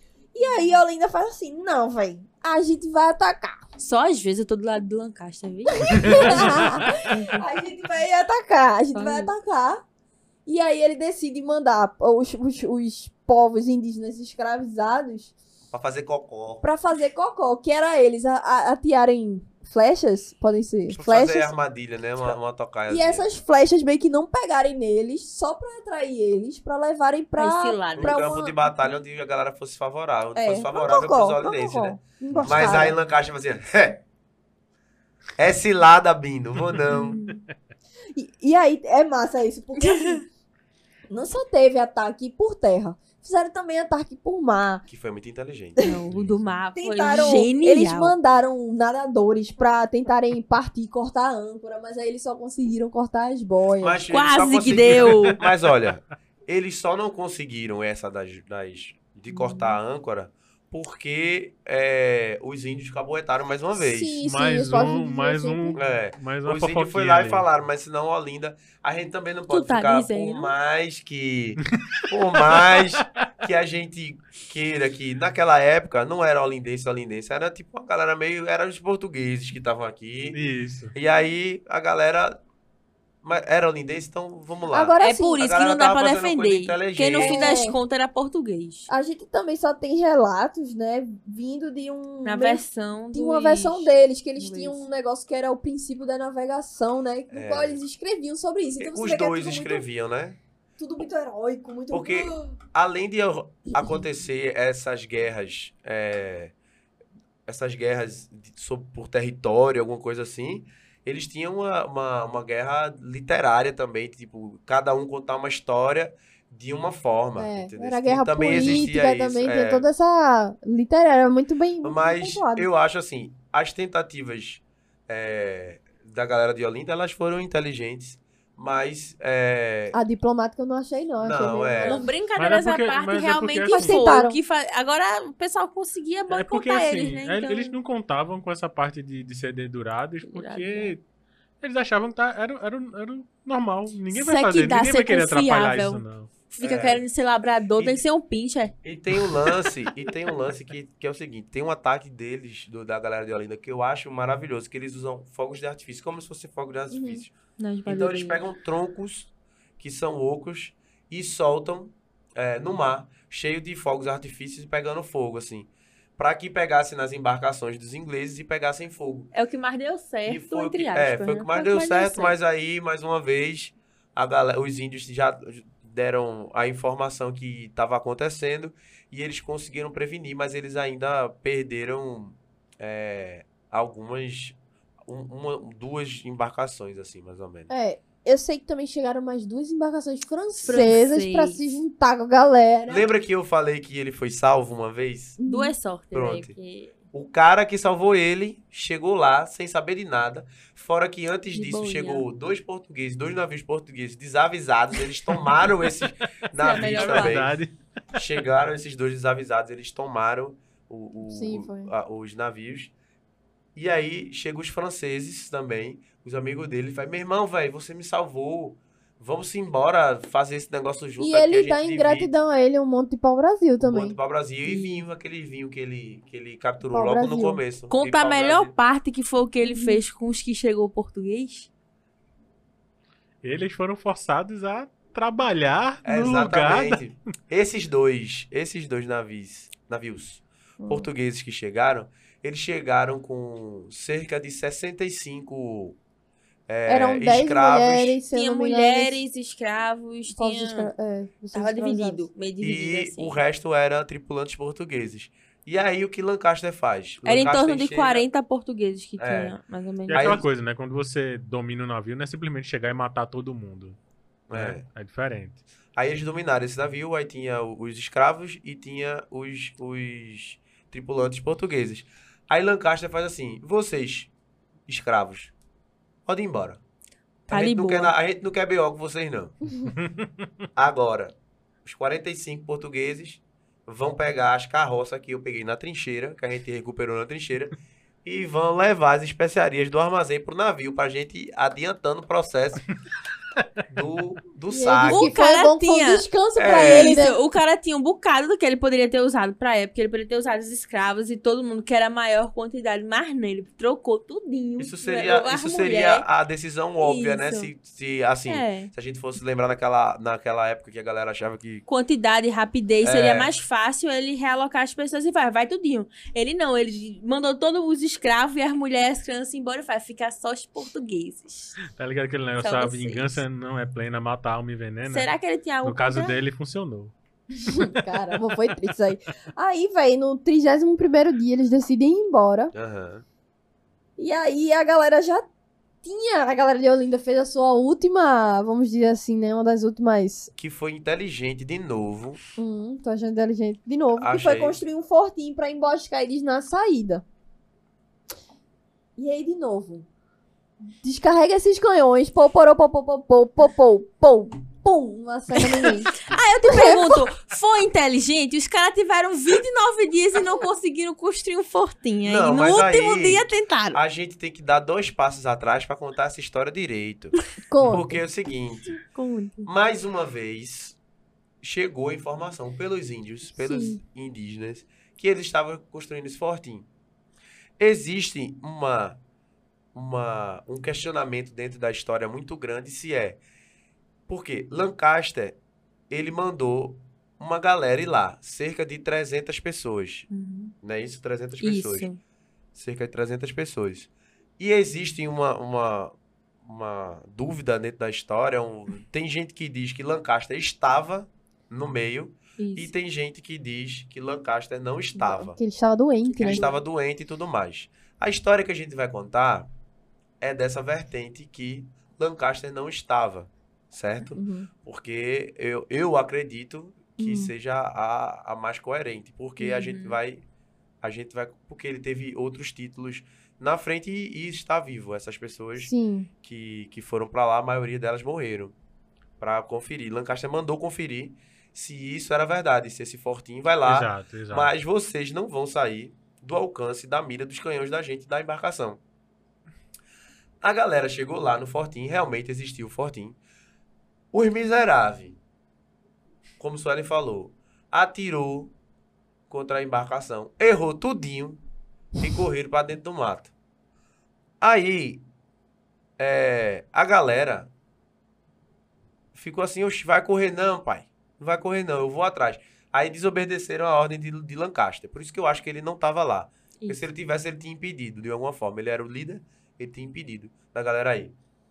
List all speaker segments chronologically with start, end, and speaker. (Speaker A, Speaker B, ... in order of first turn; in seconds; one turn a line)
Speaker A: 0.3-3.6
Speaker B: 0.4-0.8
Speaker B: 3.8-7.4
Speaker A: 5.8-9.8
Speaker C: 6.0-6.9
Speaker B: 8.9-9.3
Speaker A: 10.5-15.3
Speaker D: 15.7-16.6
Speaker A: 16.6-21.6
Speaker D: 20.9-23.3
Speaker A: 22.9-28.6
Speaker B: 27.4-28.2
Speaker D: 28.0-34.0
Speaker A: 30.4-33.0
Speaker C: 32.3-32.8
Speaker D: 35.4-37.2
Speaker B: 36.9-37.4
Speaker A: 38.1-40.2
Speaker B: 39.8-40.2
Speaker A: 41.1-44.9
Speaker D: 44.9-46.5
Speaker B: 45.8-48.1
Speaker A: 46.8-54.0
Speaker D: 53.8-64.2
Speaker B: 54.1-55.4
Speaker B: 59.3-59.8
Speaker A: 63.8-65.8
Speaker C: 64.2-67.5
Speaker D: 65.8-80.4
Speaker B: 69.5-70.5
Speaker C: 72.4-73.0
Speaker C: 80.3-80.9
Speaker D: 80.9-82.4
Speaker D: 83.2-87.6
Speaker A: 84.7-85.4
Speaker B: 85.0-88.9
Speaker A: 87.2-87.8
Speaker A: 88.9-92.6
Speaker B: 92.2-94.8
Speaker A: 93.1-99.9
Speaker D: 97.3-97.8
Speaker D: 98.8-100.4
Speaker A: 100.8-102.6
Speaker D: 101.9-106.5
Speaker D: 107.5-119.9
Speaker A: 117.4-122.7
Speaker D: 121.8-130.0
Speaker A: 129.9-132.1
Speaker D: 131.2-132.1
Speaker B: 131.8-137.8
Speaker C: 132.4-134.0
Speaker A: 133.7-134.4
Speaker C: 136.3-141.0
Speaker B: 140.3-140.9
Speaker C: 141.6-146.3
Speaker B: 144.1-148.8
Speaker D: 146.6-147.1
Speaker D: 148.8-157.3
Speaker A: 156.9-157.2
Speaker B: 157.6-158.4
Speaker D: 157.9-169.3
Speaker B: 169.3-172.4
Speaker D: 170.2-187.7
Speaker A: 187.7-193.1
Speaker B: 190.6-191.8
Speaker D: 192.9-195.4
Speaker A: 195.4-195.8
Speaker B: 195.4-197.0
Speaker D: 196.1-196.6
Speaker D: 197.1-207.5
Speaker B: 201.5-202.3
Speaker B: 206.6-207.4
Speaker C: 206.6-207.7
Speaker D: 208.1-212.9
Speaker A: 211.2-211.9
Speaker D: 213.8-222.3
Speaker A: 221.2-225.0
Speaker D: 223.8-228.7
Speaker A: 226.9-227.6
Speaker B: 227.9-231.7
Speaker A: 229.6-230.0
Speaker C: 233.4-237.0
Speaker D: 236.0-246.0
Speaker A: 240.8-241.1
Speaker D: 246.7-248.2
Speaker A: 246.9-249.2
Speaker B: 248.3-250.9
Speaker A: 250.3-252.2
Speaker B: 251.5-253.4
Speaker D: 252.6-258.3
Speaker B: 257.2-260.4
Speaker D: 259.2-259.6
Speaker C: 260.1-264.0
Speaker D: 260.1-260.4
Speaker D: 264.5-264.9
Speaker C: 264.5-265.6
Speaker D: 266.0-274.3
Speaker D: 274.9-275.5
Speaker D: 276.3-276.8
Speaker D: 277.5-279.6
Speaker B: 277.5-278.1
Speaker C: 279.9-280.4
Speaker D: 280.8-292.8
Speaker D: 293.9-295.3
Speaker A: 294.7-297.4
Speaker B: 295.1-306.2
Speaker D: 296.6-297.2
Speaker D: 304.8-311.9
Speaker B: 307.0-307.7
Speaker B: 308.5-308.9
Speaker B: 311.9-321.8
Speaker D: 313.0-313.6
Speaker C: 322.0-325.3
Speaker B: 322.6-323.4
Speaker B: 325.1-326.4
Speaker C: 325.8-327.1
Speaker C: 327.6-328.0
Speaker A: 327.7-332.7
Speaker D: 332.7-333.2
Speaker A: 334.2-335.4
Speaker A: 336.0-340.5
Speaker D: 340.6-342.4
Speaker A: 342.6-347.2
Speaker D: 344.1-344.8
Speaker A: 349.2-350.1
Speaker A: 351.0-356.1
Speaker B: 355.5-364.0
Speaker A: 356.7-357.2
Speaker D: 362.2-369.0
Speaker A: 367.7-368.2
Speaker B: 369.0-369.7
Speaker D: 369.6-371.0
Speaker D: 371.6-376.9
Speaker A: 373.6-374.0
Speaker D: 377.8-379.2
Speaker D: 379.9-383.4
Speaker D: 384.3-385.6
Speaker D: 386.1-390.3
Speaker B: 390.3-390.7
Speaker D: 390.8-392.1
Speaker B: 391.6-392.2
Speaker D: 392.8-405.6
Speaker B: 402.6-402.9
Speaker A: 405.2-406.7
Speaker B: 406.3-406.8
Speaker D: 406.4-409.7
Speaker D: 410.4-420.4
Speaker A: 414.3-414.7
Speaker A: 417.2-417.5
Speaker B: 419.6-420.2
Speaker D: 421.0-428.8
Speaker A: 425.8-426.3
Speaker D: 429.4-439.0
Speaker C: 433.9-434.7
Speaker D: 440.6-443.4
Speaker D: 444.3-445.4
Speaker D: 446.6-448.7
Speaker D: 449.5-451.6
Speaker D: 452.2-453.5
Speaker D: 454.6-455.2
Speaker D: 456.2-457.7
Speaker D: 459.3-471.4